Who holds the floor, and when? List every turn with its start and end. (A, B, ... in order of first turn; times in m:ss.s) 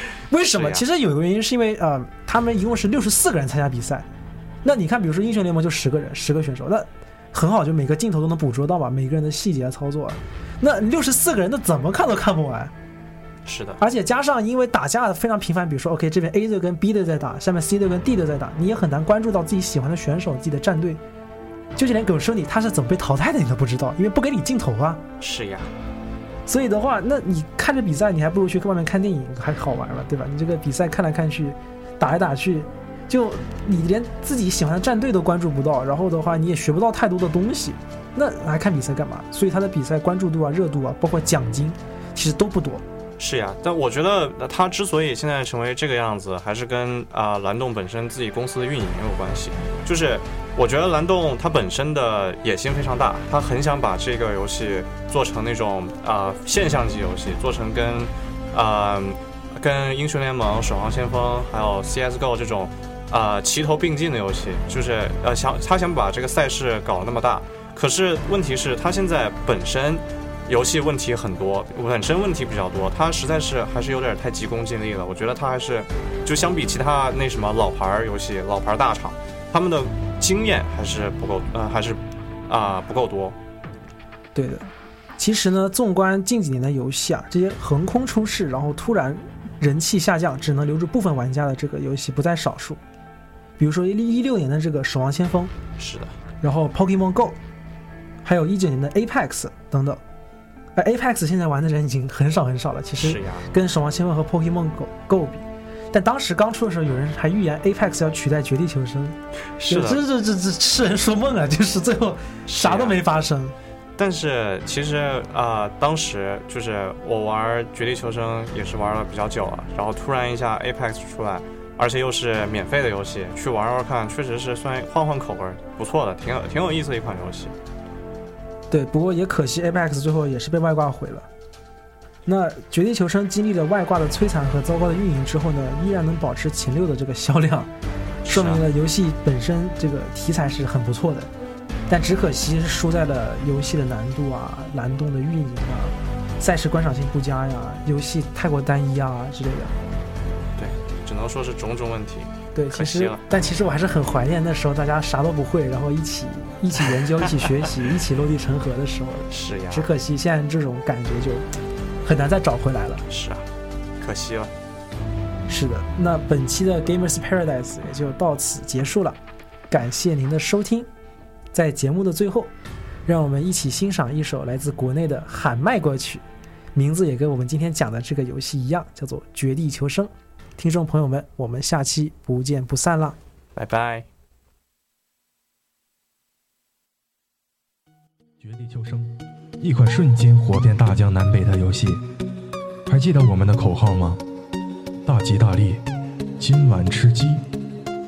0:00.3-0:04.1 A
0:00.5-0:00.8 B
0:04.6-0:12.7 A
0:13.4-0:13.8 B
0:13.8-0:21.0 A
0:21.8-0:25.0 A
0:25.2-0:25.7 B
0:26.5-0:42.8 A
0:43.2-1:23.4 B
1:24.3-1:24.6 A
1:25.2-1:32.8 A
1:33.6-1:35.5 A
1:35.8-1:36.2 B
1:36.4-1:37.4 A
1:38.2-1:40.0 A
1:40.8-1:49.2 A
1:43.0-1:43.5 B
1:49.6-1:50.0 B
1:49.7-1:53.5 A
1:52.5-1:53.0 B
1:54.0-2:07.5 B
2:08.7-2:11.3 A
2:12.2-2:17.7 A
2:18.2-2:18.6 B
2:18.2-2:21.3 A
2:21.9-2:29.7 A
2:30.6-2:33.2 B
2:32.5-2:41.4 A
2:37.2-2:37.5 B
2:39.3-2:39.9 B
2:42.0-2:43.0 A
2:43.1-2:43.5 B
2:44.0-2:44.5 B
2:45.5-2:49.2 A
2:49.7-2:50.9 A
2:51.5-2:52.5 A
2:53.0-2:56.2 A
2:56.7-3:03.2 A
3:03.5-3:04.1 B
3:08.4-3:12.0 C
3:12.9-3:14.2 C
3:15.0-3:15.8 C
3:16.4-3:17.4 C